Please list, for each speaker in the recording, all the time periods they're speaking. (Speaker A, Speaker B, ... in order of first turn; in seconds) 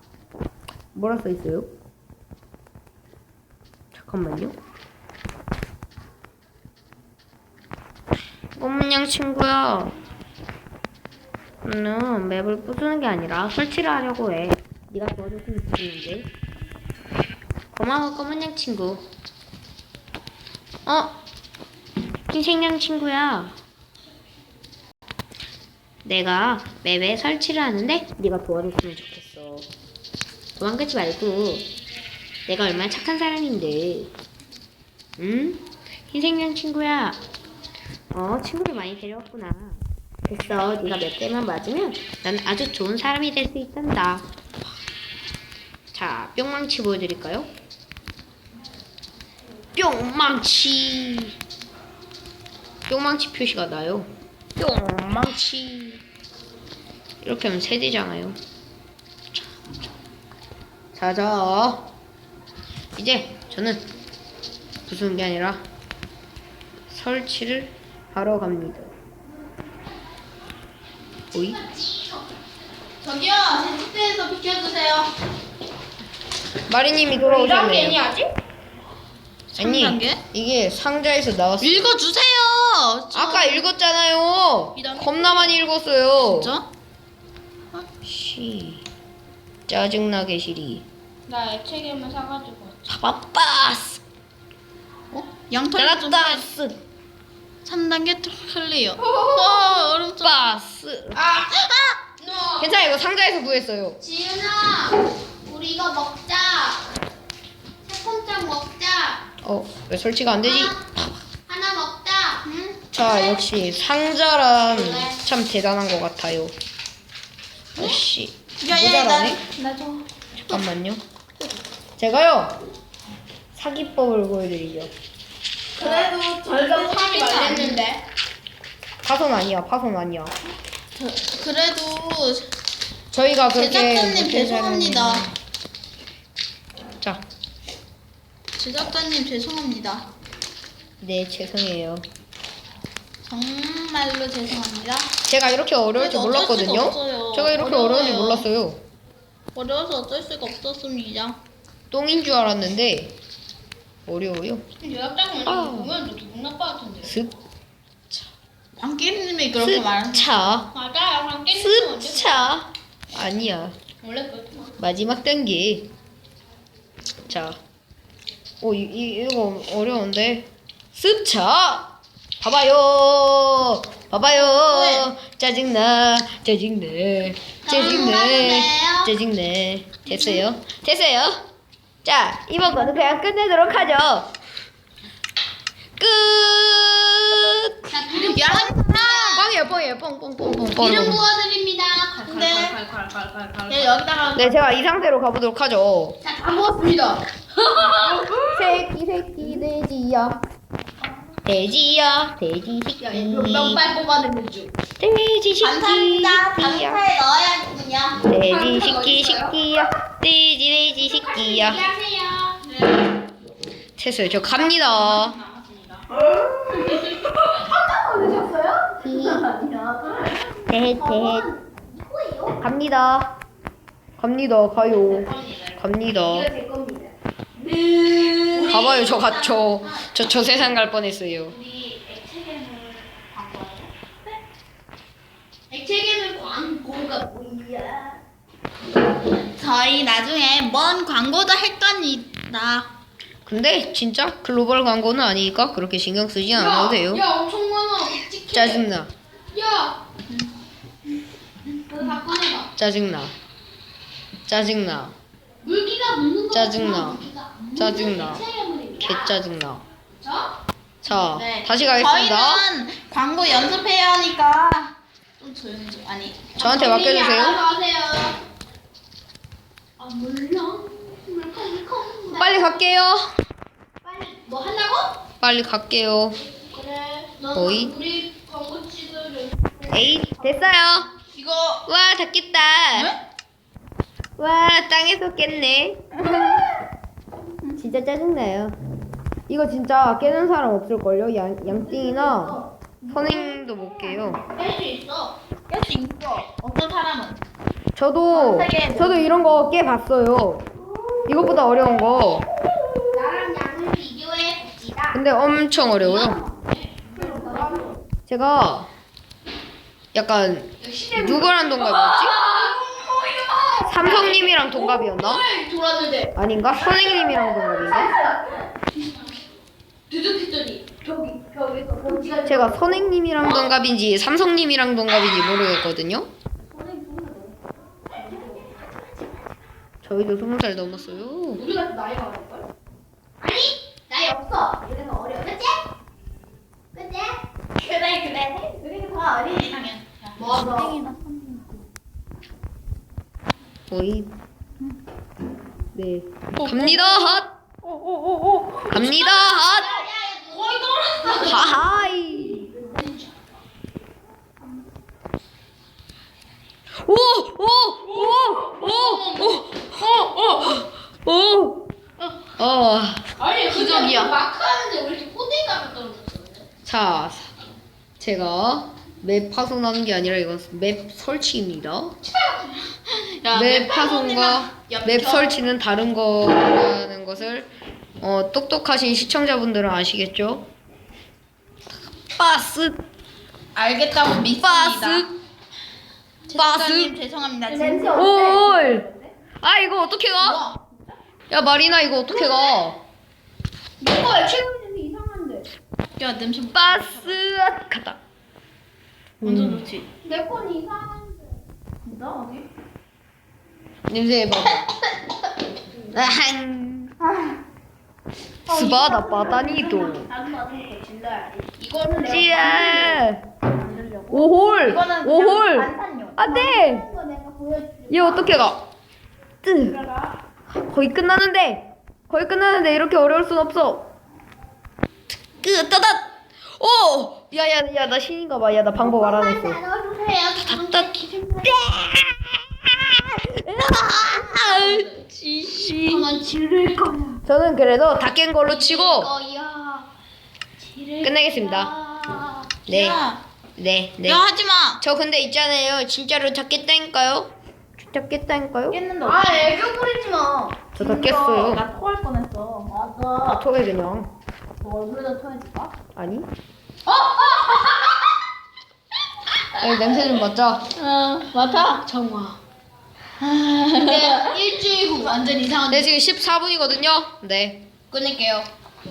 Speaker A: 0.9-1.7, 4.0-4.6, 8.6-9.9, 11.6-16.3, 17.7-19.1, 20.9-21.2, 22.3-23.5, 26.1-29.7, 30.6-31.7, 32.5-34.1, 35.2-37.2, 38.1-44.3, 45.9-47.5, 49.8-51.4, 52.9-56.0, 57.2-58.4, 60.9-61.9, 63.0-63.9, 64.9-65.6, 66.9-68.9, 71.3-71.6, 76.7-78.1, 79.6-81.9, 83.1-86.5, 88.0-88.8, 89.7-90.9, 92.9-94.0, 95.8-96.8, 100.2-101.2, 102.6-104.0, 109.4-110.8, 112.9-116.5, 117.8-119.4, 120.5-121.0, 122.0-122.6, 123.5-124.9, 129.0-130.3, 133.1-135.3, 141.0-142.1, 145.3-148.8, 151.9-153.2, 154.1-154.7, 155.5-156.0, 157.0-157.3, 159.6-160.7, 161.5-163.8, 164.8-165.9, 167.3-167.6, 168.6-171.9, 172.4-181.4, 182.0-184.3, 186.0-188.0, 189.2-191.3, 194.4-196.2, 198.0-200.4, 201.5-203.9, 205.0-207.1, 208.3-211.9, 214.0-215.4, 219.0-219.5, 220.7-221.5, 222.6-223.3, 224.2-226.5, 228.7-231.6, 243.5-247.2, 248.5-249.1, 252.8-253.3, 254.5-255.2, 256.5-258.4, 259.0-259.9, 261.0-262.6, 266.6-267.6, 272.3-273.3, 275.4-276.4, 277.5-278.0, 279.9-281.1, 281.9-283.1, 284.4-286.1, 287.8-288.8, 289.5-294.4, 298.0-300.7, 301.3-302.5, 305.1-306.4, 308.3-308.9, 310.1-312.4, 313.9-315.5, 316.4-318.2, 322.4-326.3, 330.0-331.7, 343.9-344.4, 345.9-347.5, 348.9-350.0, 351.3-352.7, 357.0-361.9, 362.6-363.3, 366.9-367.5, 368.2-372.2, 373.5-380.7, 382.3-383.0, 384.5-385.3, 386.5-387.1, 388.1-389.1, 389.6-390.6, 391.5-393.0, 396.7-398.2, 399.4-399.8, 404.1-404.9, 406.1-407.1, 408.7-410.3, 412.1-413.5, 414.3-417.1, 418.1-418.8, 419.6-420.0, 420.7-424.1, 425.4-429.8, 430.7-431.1, 431.6-436.3, 437.4-439.3, 441.2-441.9, 442.9-443.2, 443.8-444.4, 445.0-449.0, 451.0-451.9, 453.5-454.3, 456.1-456.5, 459.7-460.9, 465.9-467.9
Speaker B: 71.6-72.2, 77.1-78.3, 84.8-85.6, 91.3-92.9, 99.0-99.8, 101.1-102.8, 104.0-106.8, 107.8-109.2, 110.4-110.8, 111.5-112.4, 113.0-113.4, 114.7-115.2, 125.8-128.0, 154.8-157.1, 160.7-162.5, 164.0-164.7, 182.8-183.1, 187.9-189.1, 190.6-194.0, 196.2-198.8, 203.0-204.7, 208.4-209.6, 211.0-212.6, 216.2-222.6, 224.9-228.8, 231.5-233.8, 235.7-238.2, 246.5-248.8, 249.5-250.0, 251.9-252.7, 255.6-259.4, 260.2-260.5, 266.6-268.4, 270.0-272.7, 274.0-275.1, 276.7-280.0, 291.7-292.7, 294.1-295.4, 300.9-301.4, 303.1-305.2, 306.0-308.0, 310.8-316.3, 316.9-319.2, 320.1-323.7, 326.6-329.4, 331.6-332.6, 333.4-335.8, 336.9-337.4, 340.4-341.0, 346.6-353.5, 358.1-360.8, 363.4-366.6, 372.2-372.7, 387.7-389.3, 392.3-392.8, 394.0-395.7, 400.2-401.5, 408.7-413.2, 413.7-414.5, 416.4-418.5, 419.9-420.4, 429.0-432.2, 434.2-435.2, 436.0-437.4, 438.7-440.1, 440.8-442.7, 449.2-450.9, 452.9-453.6, 454.8-455.9, 457.1-458.2, 462.1-462.6, 464.0-465.8, 468.1-468.7
Speaker C: 73.0-75.1, 79.5-80.2, 81.6-83.6, 86.2-86.7, 95.1-96.5, 97.6-100.3, 112.4-112.8, 118.6-120.0, 125.8-127.8, 131.0-132.5, 133.5-135.3, 138.6-140.1, 143.2-145.1, 146.0-148.5, 149.6-151.4, 158.8-160.3, 174.7-175.1, 177.7-179.1, 188.1-189.4, 192.2-192.8, 193.7-194.6, 205.6-208.3, 212.6-213.1, 214.6-216.1, 228.5-229.8, 239.6-242.9, 261.1-266.6, 281.4-281.8, 286.1-286.7, 295.7-297.4, 298.3-299.6, 337.8-341.8, 363.7-364.4, 373.1-375.6, 383.8-385.3, 386.5-388.4, 390.4-390.9, 396.2-397.4, 399.4-400.1, 402.1-402.6, 411.9-412.4, 414.6-416.4, 442.9-443.4, 444.2-445.0, 448.9-449.7, 451.0-453.0, 461.0-462.1, 463.4-464.5, 465.2-466.0